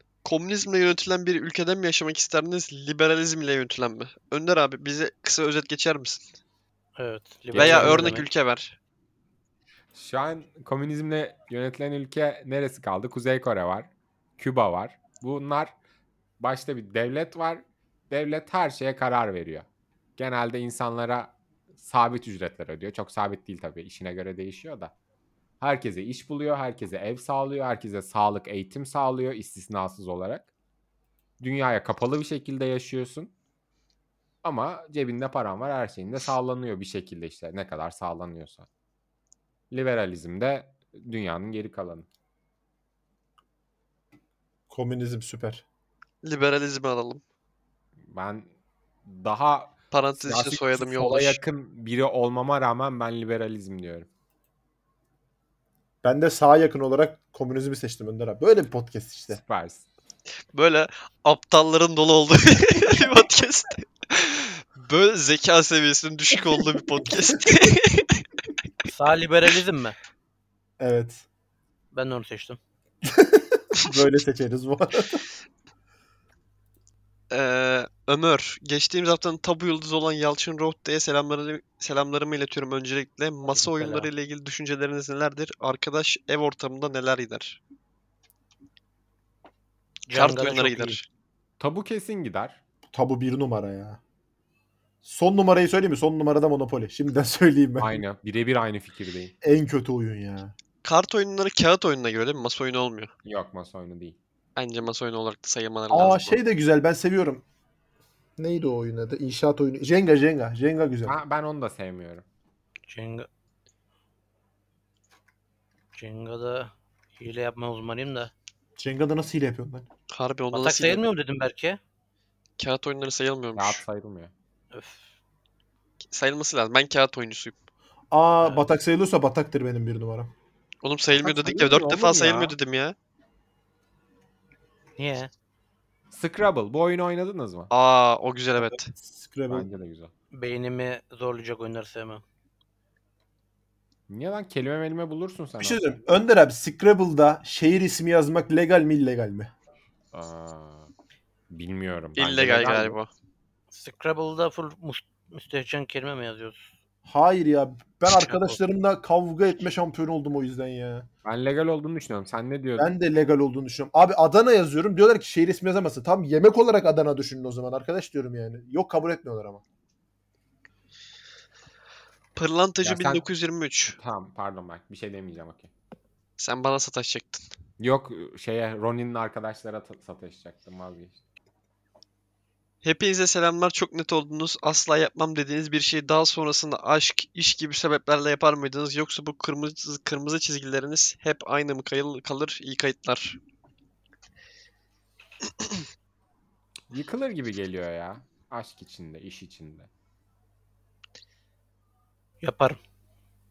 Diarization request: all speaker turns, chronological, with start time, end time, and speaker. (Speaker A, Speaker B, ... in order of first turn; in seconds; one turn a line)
Speaker A: 0.2-6.3
Speaker B: 7.0-8.3
Speaker C: 7.5-8.2
Speaker A: 7.5-8.8
Speaker C: 9.9-15.8
Speaker C: 16.4-19.7
Speaker C: 20.2-24.9
Speaker C: 25.6-30.5
Speaker C: 31.4-33.3
Speaker C: 34.4-38.7
Speaker C: 39.7-42.1
Speaker D: 44.7-45.6
Speaker A: 46.2-47.2
Speaker C: 48.1-48.5
Speaker C: 49.0-54.1
Speaker A: 49.9-51.4
Speaker D: 56.0-59.4
Speaker C: 59.3-59.9
Speaker A: 60.5-68.2
Speaker B: 68.9-70.0
Speaker D: 70.8-71.2
Speaker B: 71.9-72.6
Speaker D: 73.0-75.2
Speaker A: 77.3-87.6
Speaker B: 83.5-84.1
Speaker B: 90.1-91.0
Speaker A: 90.1-91.0
Speaker C: 91.6-92.6
Speaker D: 92.9-94.0
Speaker D: 95.0-98.0
Speaker C: 97.8-99.3
Speaker D: 99.4-100.5
Speaker A: 100.8-103.1
Speaker C: 103.2-104.2
Speaker A: 104.6-106.4
Speaker D: 105.9-107.4
Speaker D: 108.4-111.2
Speaker C: 111.1-112.2
Speaker B: 112.9-113.3
Speaker B: 116.0-118.3
Speaker D: 118.8-119.9
Speaker A: 120.1-121.0
Speaker B: 120.5-121.8
Speaker A: 122.6-123.8
Speaker C: 123.6-124.3
Speaker B: 124.7-125.1
Speaker A: 126.1-127.6
Speaker D: 128.1-130.3
Speaker A: 130.8-132.9
Speaker C: 131.2-132.6
Speaker B: 135.0-135.3
Speaker C: 136.1-137.7
Speaker A: 137.7-138.9
Speaker D: 138.6-139.7
Speaker C: 139.5-140.1
Speaker B: 140.3-142.2
Speaker C: 144.1-146.0
Speaker D: 145.6-149.5
Speaker C: 150.1-150.9
Speaker C: 151.5-153.0
Speaker A: 152.2-153.1
Speaker B: 153.7-156.7
Speaker D: 157.1-161.1
Speaker B: 158.1-158.6
Speaker C: 161.2-162.9
Speaker D: 162.8-169.6
Speaker A: 172.4-174.0
Speaker C: 172.8-173.2
Speaker C: 174.0-175.7
Speaker A: 176.4-177.4
Speaker C: 177.8-181.2
Speaker A: 182.8-193.4
Speaker C: 196.9-199.9
Speaker B: 202.4-202.8